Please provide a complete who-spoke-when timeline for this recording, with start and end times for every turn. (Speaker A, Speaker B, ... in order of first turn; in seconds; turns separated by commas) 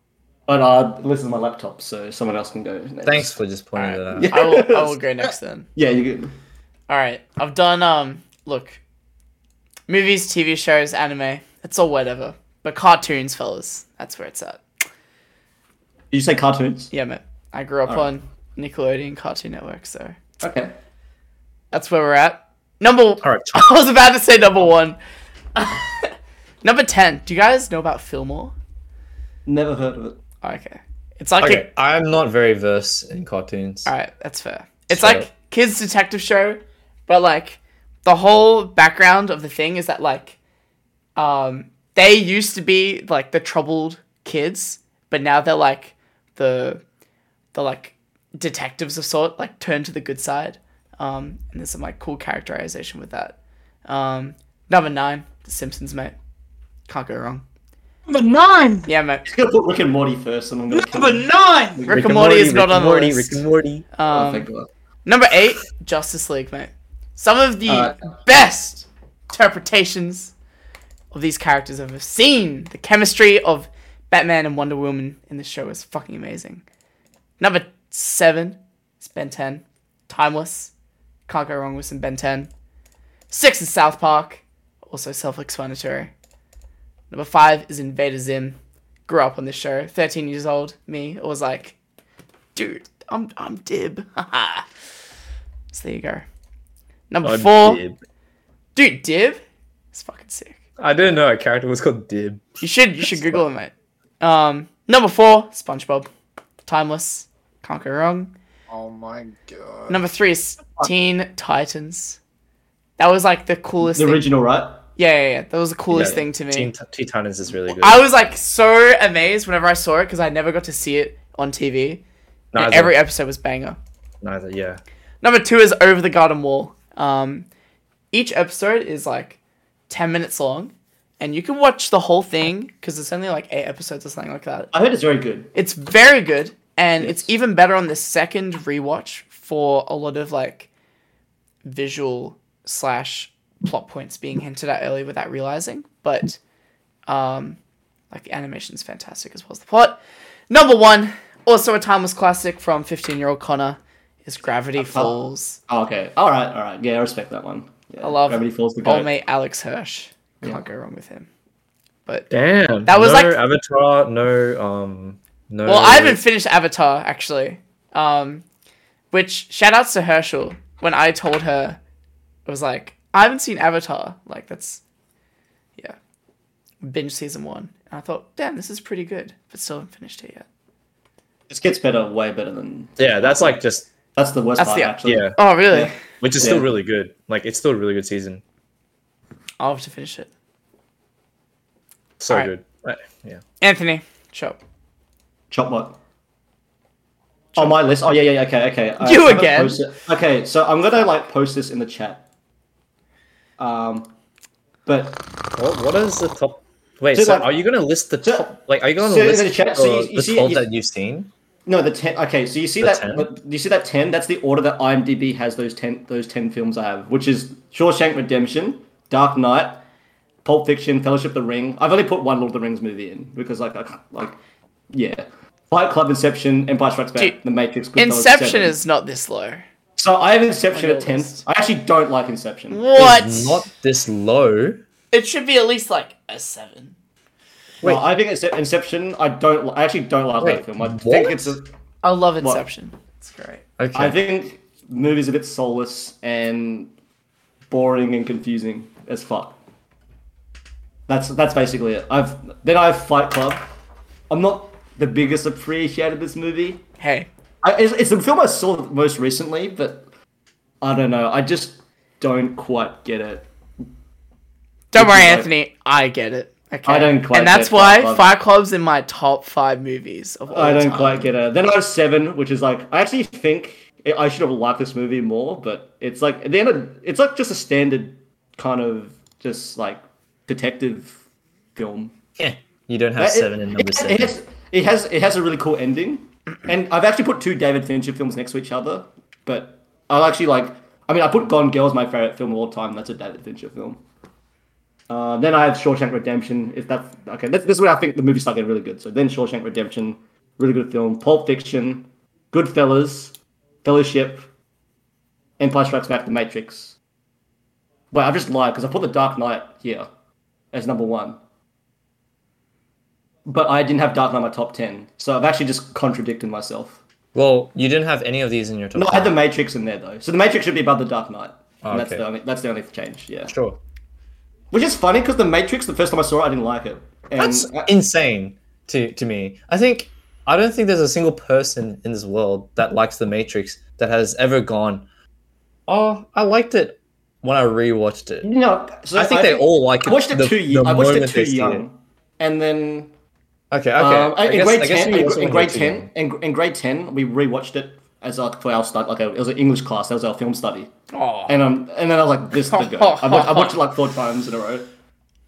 Speaker A: 0.5-3.4, Speaker B: 3.0-4.5, Speaker C: 3.8-5.7, Speaker A: 4.1-5.0, Speaker A: 5.8-6.3, Speaker C: 6.9-8.8, Speaker C: 9.9-14.6, Speaker A: 16.1-16.9, Speaker C: 16.9-20.2, Speaker A: 20.4-20.7, Speaker C: 21.7-25.0, Speaker B: 23.2-23.6, Speaker C: 25.5-26.1, Speaker C: 26.6-28.5, Speaker A: 29.4-30.2, Speaker C: 30.4-31.6, Speaker B: 31.4-33.9, Speaker C: 33.9-40.3, Speaker B: 34.9-35.3, Speaker C: 41.1-46.8, Speaker C: 47.5-56.1, Speaker C: 56.9-57.4, Speaker D: 58.1-58.9, Speaker C: 58.9-59.2, Speaker A: 59.2-62.1, Speaker D: 60.7-61.8, Speaker C: 61.9-64.5, Speaker B: 61.9-63.9, Speaker A: 64.1-64.7, Speaker C: 65.0-70.3, Speaker A: 67.7-68.0, Speaker C: 71.1-76.6, Speaker C: 77.4-80.7, Speaker C: 81.3-82.5, Speaker C: 83.3-86.1, Speaker C: 87.1-91.8, Speaker C: 92.5-94.7, Speaker C: 95.7-96.2, Speaker C: 97.1-97.8, Speaker B: 97.2-98.0, Speaker C: 98.7-100.6, Speaker B: 100.8-103.4, Speaker C: 102.6-106.1, Speaker C: 106.6-108.3, Speaker D: 108.7-110.0, Speaker C: 109.9-112.2, Speaker C: 113.0-114.2, Speaker A: 113.8-114.8, Speaker C: 115.0-116.7, Speaker B: 115.9-118.1, Speaker C: 117.7-122.0, Speaker B: 122.5-122.9, Speaker C: 122.5-123.8, Speaker B: 124.2-124.8, Speaker C: 125.2-127.5, Speaker C: 128.1-129.4, Speaker C: 129.9-134.7, Speaker A: 134.7-135.5, Speaker C: 135.5-140.7, Speaker A: 137.0-137.3, Speaker C: 141.6-146.4, Speaker C: 147.1-147.6, Speaker C: 148.1-155.6, Speaker A: 154.8-159.1, Speaker C: 158.0-161.3, Speaker B: 162.3-166.2, Speaker C: 162.8-163.3, Speaker C: 165.6-168.4, Speaker C: 169.1-171.8, Speaker C: 172.4-174.8, Speaker C: 176.8-180.4, Speaker A: 181.5-183.6, Speaker B: 183.0-183.9, Speaker A: 184.1-186.7, Speaker C: 184.6-185.9, Speaker B: 185.0-185.4, Speaker B: 186.2-188.4, Speaker C: 189.6-190.3, Speaker B: 192.2-193.4, Speaker C: 193.6-194.6, Speaker A: 195.5-196.0, Speaker A: 197.5-202.2, Speaker C: 199.0-199.8, Speaker A: 203.6-204.1, Speaker A: 204.8-205.3, Speaker B: 205.5-211.3, Speaker A: 207.1-207.5, Speaker A: 208.2-210.6, Speaker A: 211.7-219.8, Speaker B: 212.8-213.3, Speaker A: 220.4-224.4, Speaker A: 224.9-228.8, Speaker C: 227.9-229.6, Speaker A: 230.0-232.9, Speaker C: 230.7-231.4, Speaker C: 232.7-233.6, Speaker B: 232.9-234.8, Speaker C: 235.1-236.9, Speaker A: 237.8-241.7, Speaker B: 240.4-241.6, Speaker C: 242.0-243.6, Speaker B: 243.8-244.2, Speaker A: 243.9-246.9, Speaker A: 247.7-249.6, Speaker A: 251.1-253.6, Speaker A: 254.3-256.8, Speaker C: 257.0-257.3, Speaker A: 257.6-260.0, Speaker A: 260.8-263.5, Speaker C: 264.9-271.3, Speaker A: 264.9-265.5, Speaker A: 266.8-268.3, Speaker A: 270.5-281.1, Speaker A: 281.8-282.1, Speaker B: 282.4-284.3, Speaker A: 283.2-294.0, Speaker A: 295.1-304.5, Speaker A: 305.6-306.9, Speaker A: 308.1-310.1, Speaker A: 310.7-311.4, Speaker A: 313.4-317.0, Speaker B: 317.3-319.4, Speaker A: 318.9-323.5, Speaker B: 321.8-322.2, Speaker B: 323.5-323.8, Speaker A: 324.7-327.9, Speaker B: 327.4-335.0, Speaker B: 335.9-338.5, Speaker A: 338.4-343.1, Speaker B: 339.1-341.8, Speaker B: 343.7-346.1, Speaker A: 344.0-350.9, Speaker C: 351.1-351.6, Speaker A: 351.5-354.9, Speaker C: 352.7-353.8